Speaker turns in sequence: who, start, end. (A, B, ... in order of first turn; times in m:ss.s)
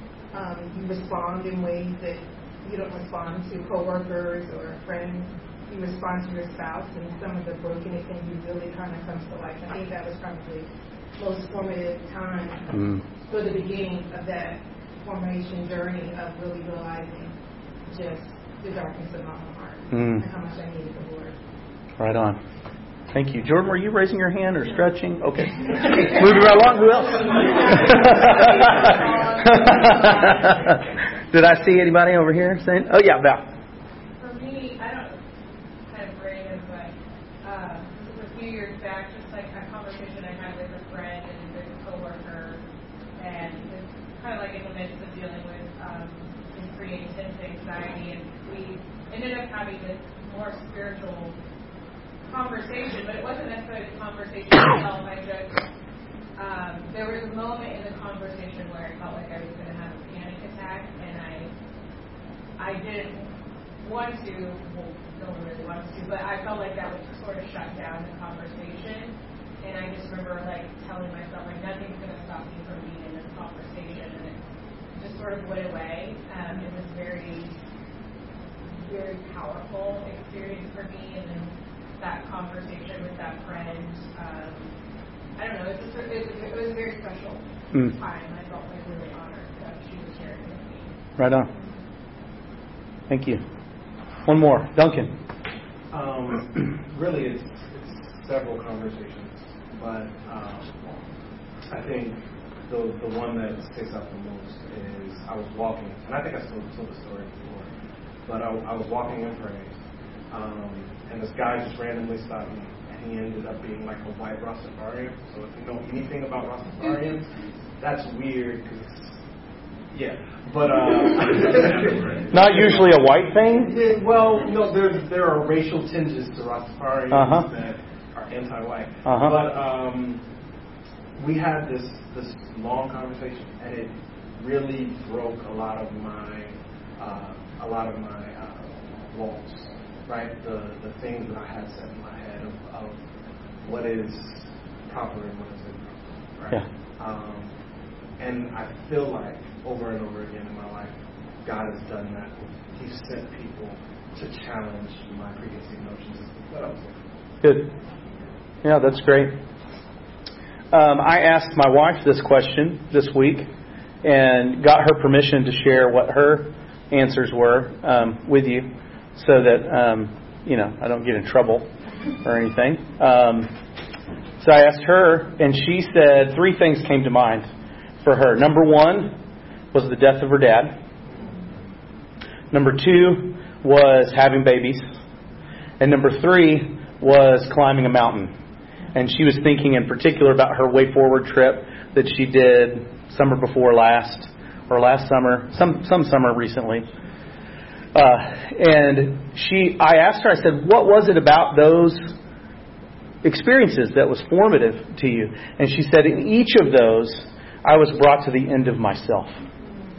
0:00.3-0:12.7 A
0:12.7-0:13.0 B
0:13.2-0:17.3 A
0:17.9-0:21.4 A
0:19.9-0:20.2 B
0:22.0-0:22.4 B
0:23.1-0:33.4 B
0:27.8-0:29.9 A
0:34.2-0:35.2 C
0:35.9-0:42.6 C
0:43.2-0:51.4 C
0:52.2-0:55.6 C
0:56.4-1:01.5 C
1:02.6-1:14.4 C
1:14.9-1:17.5 C
1:18.8-1:24.7 C
1:25.4-1:30.9 C
1:31.2-1:31.5 B
1:33.1-1:33.4 B
1:34.2-1:35.1 B
1:35.9-1:41.0 D
1:41.6-1:47.7 D
1:48.2-1:49.8 D
1:50.3-1:59.2 D
1:59.9-2:02.8 D
2:02.3-2:03.7 B
2:03.5-2:10.2 D
2:07.1-2:07.5 B
2:09.0-2:09.4 B
2:11.1-2:23.0 D
2:23.6-2:27.5 D
2:28.2-2:37.0 D
2:37.4-2:37.7 B
2:38.6-2:39.4 B
2:40.7-2:43.5 B
2:44.0-2:51.7 B
2:52.2-2:53.5 B
2:54.4-2:57.5 B
2:58.0-2:59.2 B
2:59.7-3:00.8 B
3:02.5-3:04.8 B
3:05.8-3:08.3 B
3:08.9-3:16.9 B
3:17.9-3:22.1 B
3:23.2-3:29.4 B